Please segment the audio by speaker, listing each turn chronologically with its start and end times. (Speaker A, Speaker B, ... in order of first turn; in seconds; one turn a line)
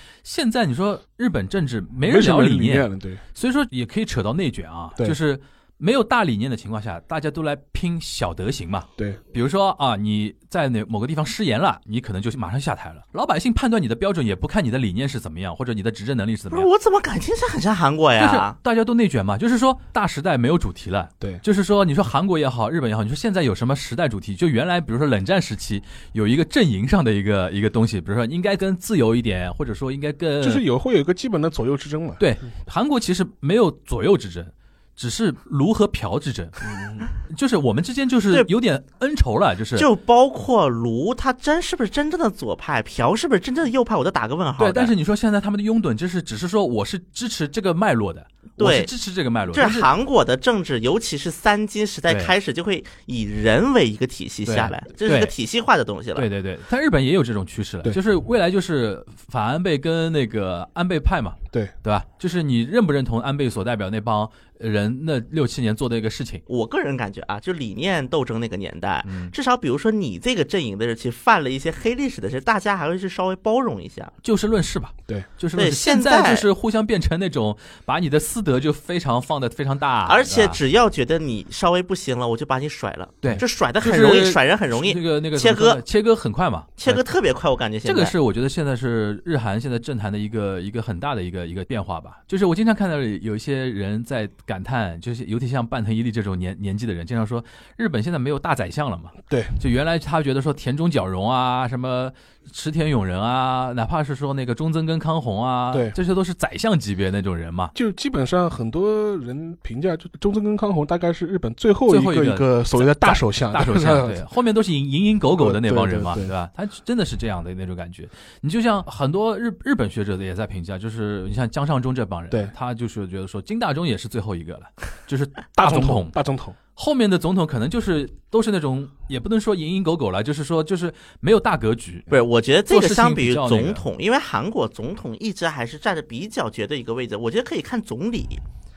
Speaker A: 0.2-16.7
Speaker B: 2.0-3.2
Speaker C: 16.5-18.6
Speaker A: 18.2-30.6
Speaker B: 30.4-32.2
Speaker A: 32.2-39.9
Speaker B: 36.6-37.1
Speaker C: 39.8-44.9
Speaker A: 44.6-49.9
Speaker C: 48.6-48.9
Speaker C: 49.5-56.2
Speaker A: 52.1-52.3
Speaker A: 54.5-55.3
Speaker A: 56.1-66.4
Speaker C: 66.5-74.1
Speaker A: 69.0-69.3
Speaker A: 74.2-80.6
Speaker C: 75.5-76.5
Speaker C: 80.0-85.8
Speaker A: 83.2-87.1
Speaker C: 86.8-88.1
Speaker A: 87.8-107.7
Speaker B: 99.3-99.5
Speaker B: 107.7-114.2
Speaker A: 111.9-126.2
Speaker B: 115.3-116.3
Speaker B: 125.5-126.5
Speaker A: 126.8-132.1
Speaker C: 132.1-138.4
Speaker A: 132.7-133.8